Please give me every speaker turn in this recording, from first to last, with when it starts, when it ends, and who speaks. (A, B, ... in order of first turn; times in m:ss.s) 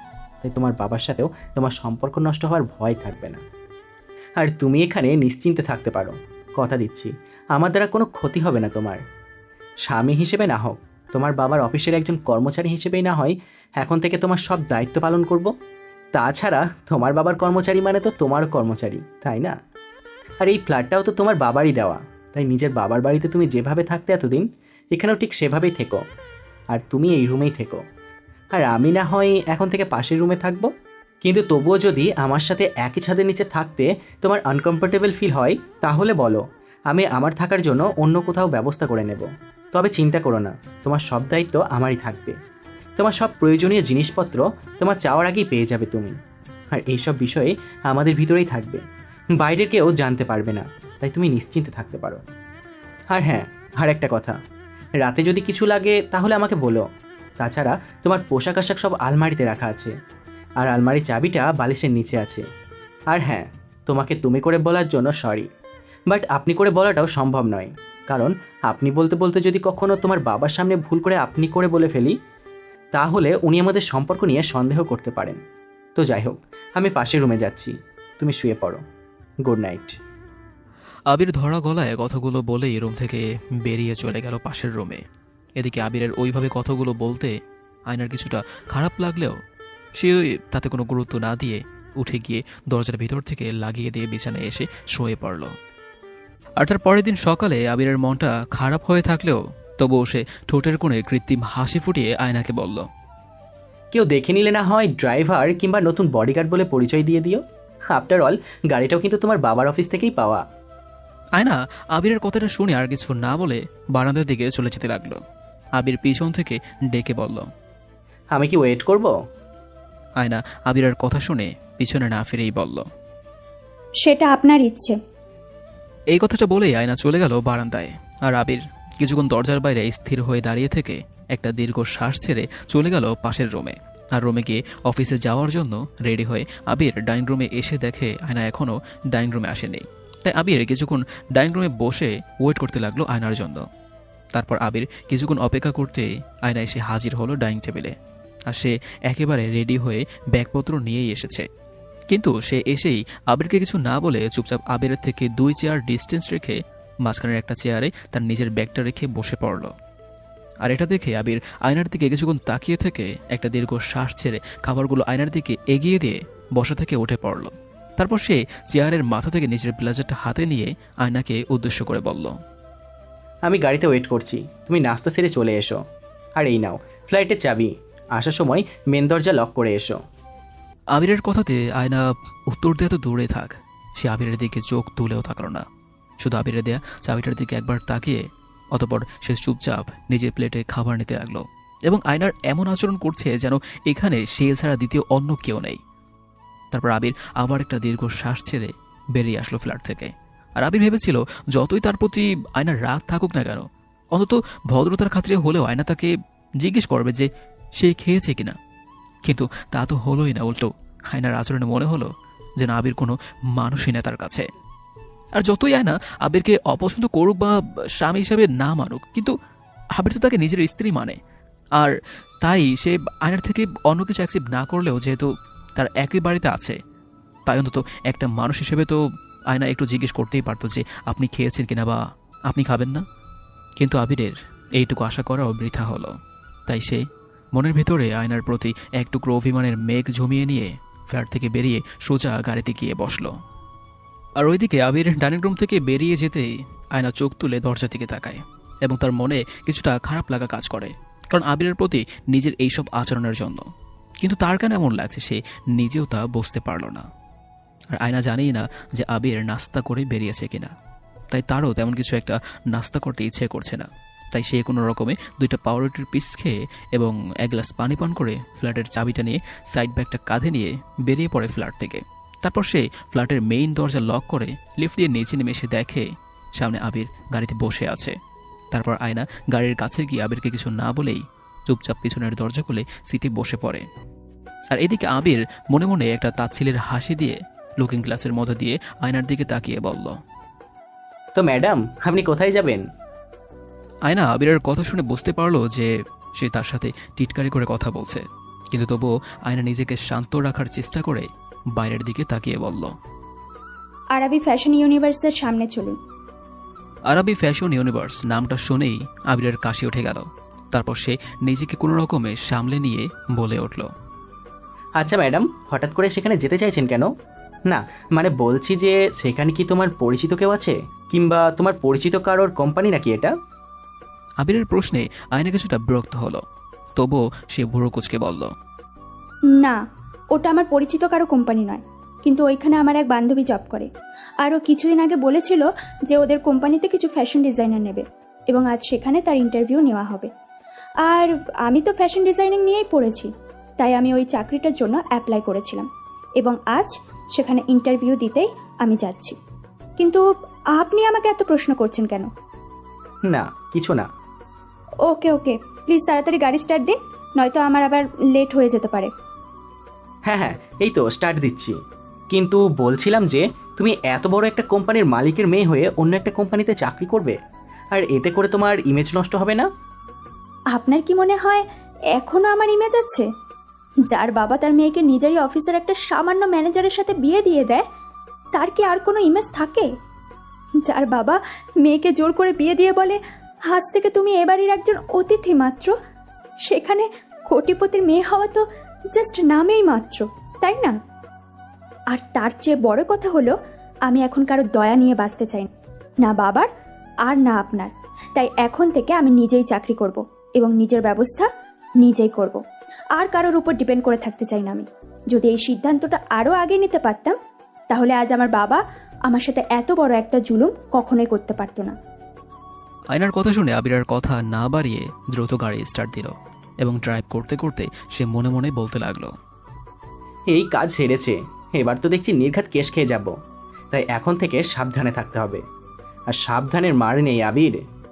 0:00.4-0:03.4 A
0:04.4-0:09.0 A
0:09.8-0:15.5 A
0:16.1-0:19.5 A
0:20.4-0:26.0 A
0:26.7-0:27.8 A
0:28.5-0:30.7 A
0:31.2-0:42.4 A
0:43.0-0:46.2 A
0:46.7-0:48.8 A
0:49.4-0:52.2 A
0:53.1-0:54.4 A
0:55.0-0:56.8 A
0:57.4-0:59.9 A
1:00.6-1:02.4 A
1:03.1-1:05.5 A
1:06.1-1:12.1 A
1:12.9-1:15.4 A
1:16.0-1:18.8 A
1:19.4-1:20.0 A
1:21.1-1:25.0 B
1:25.6-1:27.3 B
1:27.9-1:29.3 B
1:30.0-1:35.5 B
1:36.6-1:42.8 B
1:43.9-1:50.4 A
1:51.4-1:55.2 B
1:55.8-1:57.5 B
1:58.3-1:59.1 A
2:00.2-2:02.8 B
2:04.0-2:05.0 C
2:06.1-2:23.6 B
2:24.3-2:27.9 B
2:28.5-2:31.5 B
2:32.1-2:39.7 B
2:40.6-2:52.3 B
2:53.4-2:55.8 A
2:56.4-3:00.0 A
3:00.9-3:05.6 B
3:06.2-3:08.2 B
3:08.7-3:15.8 B
3:16.7-3:27.3 B
3:27.8-3:28.5 B
3:29.2-3:34.4 B
3:35.4-3:39.3 B
3:40.0-3:41.2 B
3:41.8-3:46.8 B
3:47.5-3:49.0 B
3:49.5-3:53.0 B
3:53.8-3:56.1 B
3:56.7-4:03.3 B
4:04.4-4:13.6 B
4:14.2-4:17.0 B
4:17.9-4:20.7 B
4:21.3-4:38.1 B
4:38.7-4:43.8 B
4:44.7-4:50.2 B
4:51.3-4:52.8 A
4:54.1-5:02.9 B
5:04.1-5:06.0 C
5:07.1-5:13.9 B
5:15.0-5:17.1 A
5:17.7-5:23.3 A
5:24.4-5:26.4 B
5:27.0-5:28.5 B
5:30.3-5:33.9 C
5:34.4-5:40.3 C
5:41.0-5:45.9 C
5:46.4-5:49.4 C
5:50.7-5:52.3 C
5:53.3-5:54.1 A
5:55.0-5:59.1 C
6:00.3-6:01.8 A
6:02.3-6:07.4 A
6:07.9-6:09.7 A
6:10.7-6:11.6 C
6:12.1-6:13.3 C
6:14.1-6:17.8 C
6:18.5-6:19.9 C
6:20.8-6:23.2 C
6:23.7-6:25.9 C
6:26.7-6:31.0 C
6:32.1-6:33.5 C
6:34.1-6:35.7 C
6:36.2-6:36.7 C
6:37.2-6:41.5 C
6:42.0-6:42.6 C
6:43.2-6:47.4 C
6:47.9-6:51.9 C
6:53.1-6:59.3 B
7:00.5-7:03.3 A
7:03.9-7:05.6 A
7:06.3-7:07.8 A